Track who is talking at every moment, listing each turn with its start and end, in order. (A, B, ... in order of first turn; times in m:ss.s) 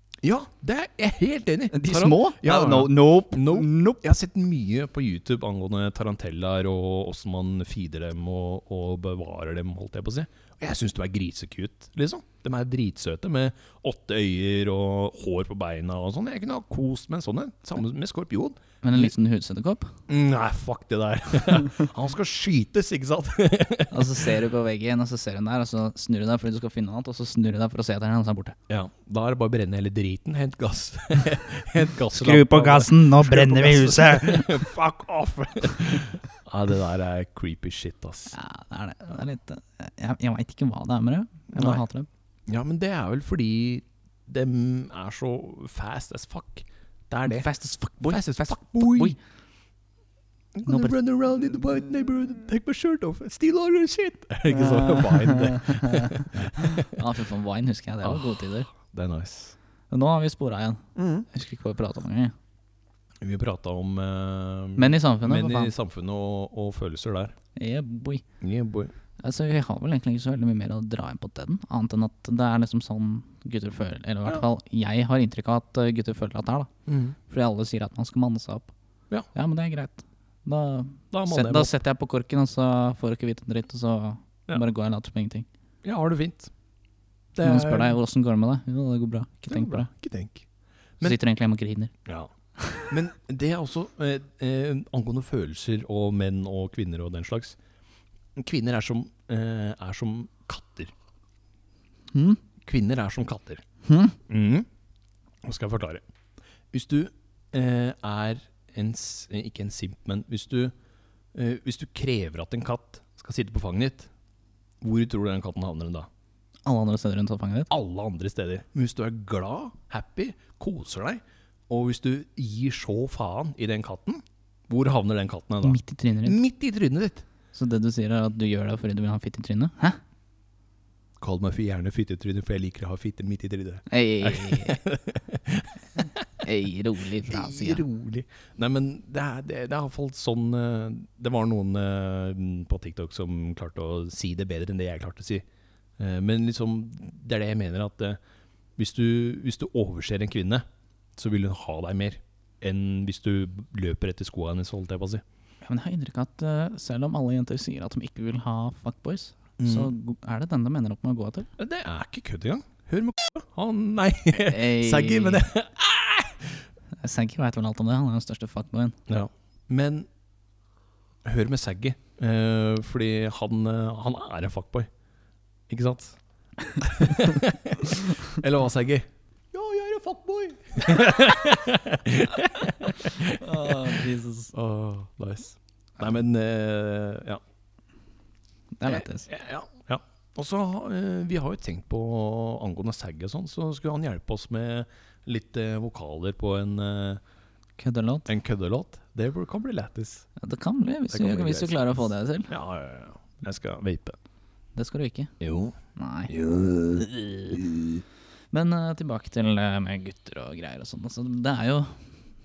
0:00.2-0:19.1 A
0:01.7-0:04.0 B
0:18.8-0:19.9 B
0:20.1-0:24.2 A
0:23.9-0:28.6 B
0:28.7-0:38.3 A
0:32.1-0:34.6 B
0:38.3-0:42.1 B
0:41.5-0:41.8 A
0:42.5-0:47.5 A
0:47.3-0:49.2 B
0:48.0-0:49.2 A
0:50.5-0:56.9 A
0:50.6-0:50.9 B
0:54.5-0:58.7 B
0:58.0-0:59.6 A
0:59.9-1:02.3 B
1:01.0-1:01.2 A
1:03.2-1:07.3 A
1:04.8-1:05.7 B
1:07.6-1:08.2 B
1:08.4-1:08.9 A
1:09.2-1:16.7 B
1:16.9-1:17.2 A
1:17.3-1:18.7 B
1:19.3-1:25.4 B
1:21.1-1:21.7 A
1:25.8-1:26.5 A
1:27.4-1:28.0 A
1:27.4-1:29.9 B
1:29.5-1:30.4 A
1:31.0-1:31.9 B
1:32.0-1:32.3 A
1:32.6-1:32.9 B
1:32.9-1:37.6 A
1:38.4-1:40.9 A
1:42.1-1:42.4 B
1:42.6-1:43.6 A
1:43.8-1:44.2 B
1:44.3-1:44.7 A
1:45.4-1:46.0 A
1:46.7-1:50.7 A
1:51.3-1:54.1 A
1:54.8-1:56.1 A
1:56.6-1:57.7 B
1:57.7-2:07.2 A
2:05.6-2:06.4 B
2:07.5-2:10.0 B
2:11.2-2:16.2 A
2:13.9-2:14.8 B
2:16.4-2:17.8 B
2:17.2-2:25.4 A
2:26.0-2:28.2 A
2:28.8-2:35.2 A
2:35.6-2:41.5 B
2:39.6-2:39.9 A
2:41.6-2:46.6 A
2:44.3-2:45.4 B
2:47.0-2:49.0 B
2:49.1-2:50.1 A
2:51.2-2:54.9 A
2:55.7-2:56.2 A
2:56.8-3:04.0 A
3:02.9-3:04.5 B
3:04.5-3:07.4 A
3:08.8-3:09.3 B
3:08.8-3:17.2 A
3:17.8-3:18.3 B
3:18.3-3:20.2 A
3:20.4-3:22.5 B
3:21.1-3:24.2 A
3:24.7-3:25.3 B
3:25.4-3:25.8 A
3:26.0-3:26.3 B
3:26.3-3:28.0 A
3:28.5-3:32.0 B